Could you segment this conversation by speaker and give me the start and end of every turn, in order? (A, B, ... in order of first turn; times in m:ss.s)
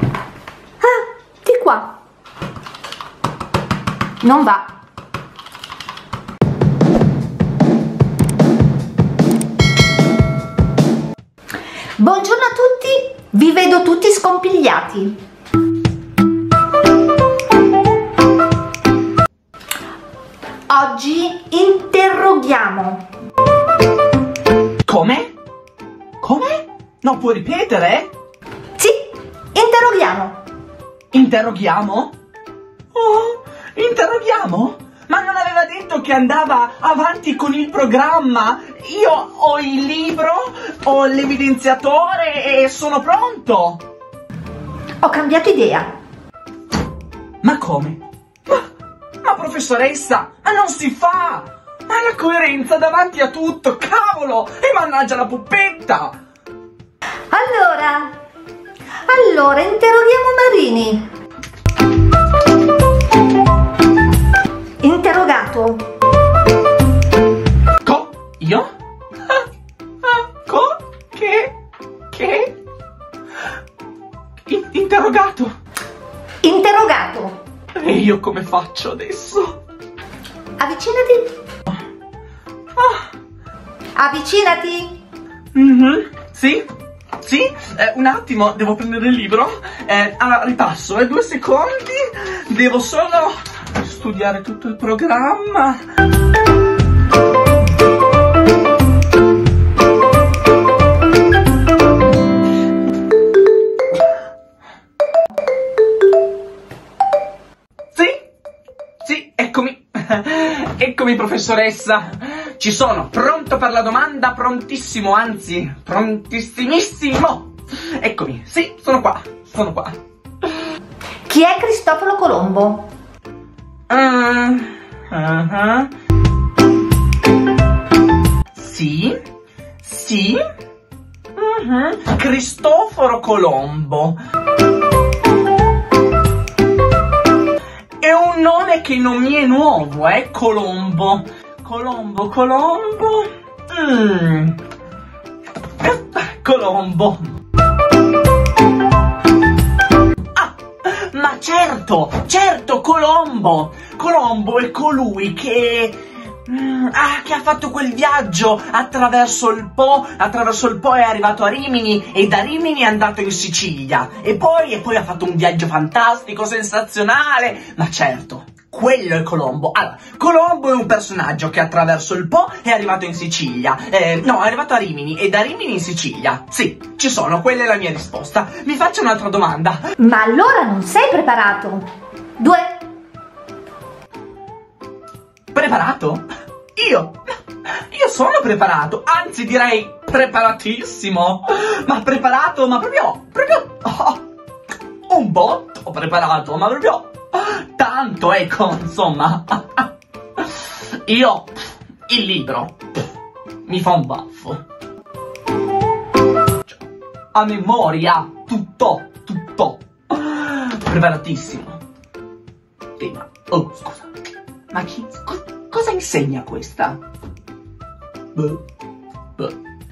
0:00.8-0:01.9 A
0:04.2-0:04.7 A
0:12.0-0:15.2 A
0:20.7-0:23.1 A
0:24.8-0:25.3 B
0:26.2-0:28.1 B
0:28.8-0:30.4 A
0:31.1-0:32.1 B
0:32.9-0:43.8 B
0:45.0-0:45.9 A
0:47.4-0:48.6 B
0:49.2-0:56.2 B
0:57.3-0:58.2 A
0:59.0-1:01.1 A
1:04.8-1:05.9 A
1:07.8-1:08.7 B
1:10.0-1:11.5 B
1:12.1-1:12.5 B
1:14.5-1:15.5 B
1:16.4-1:17.4 A
1:17.8-1:19.6 B
1:20.6-1:21.3 A
1:22.8-1:23.0 B
1:23.9-1:25.0 A
1:25.5-1:26.7 B
1:27.2-1:35.8 B
1:47.9-1:48.2 B
1:49.0-2:00.0 B
2:01.3-2:02.9 A
2:03.9-2:05.9 B
2:08.5-2:09.2 B
2:09.8-2:10.4 B
2:11.3-2:14.2 B
2:18.0-2:24.6 B
2:25.8-2:27.4 B
2:30.3-2:59.8 B
3:00.0-3:02.8 A
3:05.5-3:07.3 B
3:07.9-3:14.2 B
3:15.1-3:23.0 B
3:23.6-3:24.6 B
3:26.7-3:31.8 B
3:33.0-3:34.1 B
3:34.7-3:37.0 B
3:38.3-3:38.6 B